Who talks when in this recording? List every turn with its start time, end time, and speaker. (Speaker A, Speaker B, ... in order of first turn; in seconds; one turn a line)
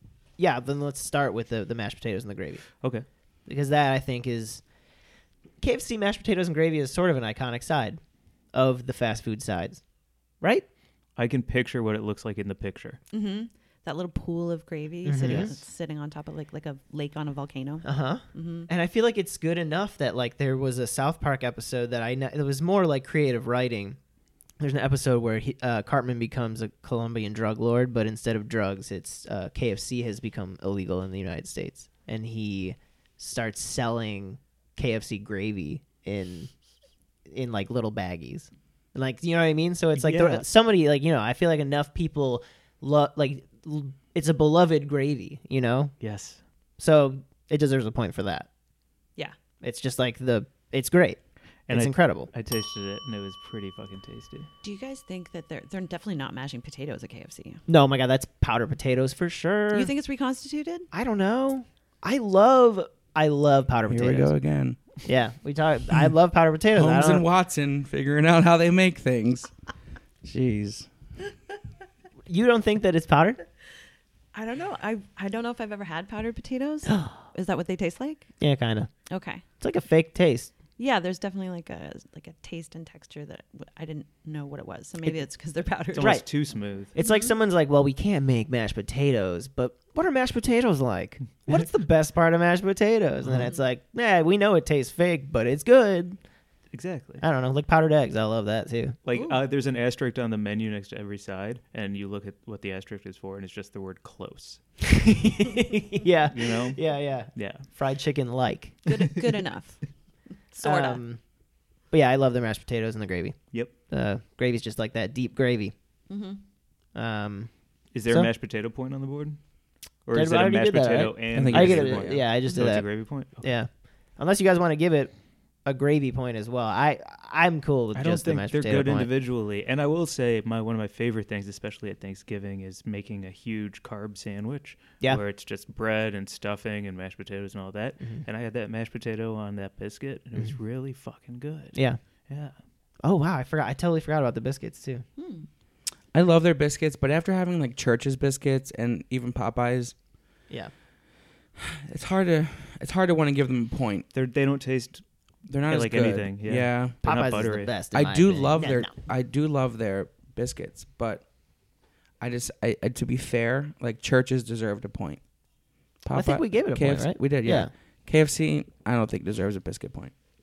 Speaker A: 0.4-2.8
Speaker B: 2.8-3.0
Speaker A: 3.5-4.6
Speaker A: 5.6-8.0
Speaker A: 8.5-9.8
Speaker B: 11.2-13.0
Speaker C: 13.1-18.7
Speaker A: 15.0-15.5
Speaker B: 15.2-15.5
Speaker A: 17.8-24.0
Speaker A: 24.6-36.5
Speaker A: 37.3-45.9
Speaker B: 39.9-40.4
Speaker B: 46.0-46.4
Speaker A: 46.8-48.5
Speaker A: 49.6-52.3
Speaker B: 51.7-54.5
Speaker C: 54.6-57.6
Speaker A: 57.7-59.9
Speaker C: 59.7-60.9
Speaker A: 60.9-64.3
Speaker D: 63.9-64.8
Speaker A: 65.0-67.2
Speaker D: 66.7-69.5
Speaker D: 70.2-70.9
Speaker A: 72.3-73.4
Speaker C: 74.3-78.3
Speaker A: 76.9-77.2
Speaker A: 78.4-78.9
Speaker C: 79.1-79.4
Speaker A: 79.6-80.5
Speaker C: 80.8-86.2
Speaker B: 85.9-86.9
Speaker A: 86.0-86.3
Speaker A: 86.9-96.2
Speaker C: 87.0-87.3
Speaker B: 96.7-97.2
Speaker A: 97.2-99.0
Speaker B: 99.0-104.6
Speaker C: 99.1-99.4
Speaker A: 104.8-108.8
Speaker B: 106.3-106.8
Speaker B: 107.3-107.6
Speaker C: 108.8-109.9
Speaker C: 110.5-111.0
Speaker A: 110.6-111.2
Speaker A: 111.9-115.7
Speaker C: 116.1-116.4
Speaker A: 116.9-117.5
Speaker B: 117.9-119.4
Speaker B: 120.0-123.4
Speaker A: 120.1-125.1
Speaker D: 121.3-122.2
Speaker A: 125.6-129.1
Speaker B: 127.9-141.8
Speaker A: 141.7-142.0
Speaker B: 142.3-142.6
Speaker A: 143.0-145.0
Speaker C: 145.2-145.4
Speaker D: 146.1-149.9
Speaker D: 151.6-154.1
Speaker B: 154.1-155.0
Speaker D: 155.5-156.9
Speaker B: 155.7-157.7
Speaker A: 157.0-158.9
Speaker D: 157.9-161.2
Speaker D: 162.2-165.2
Speaker D: 166.0-170.1
Speaker A: 166.1-167.7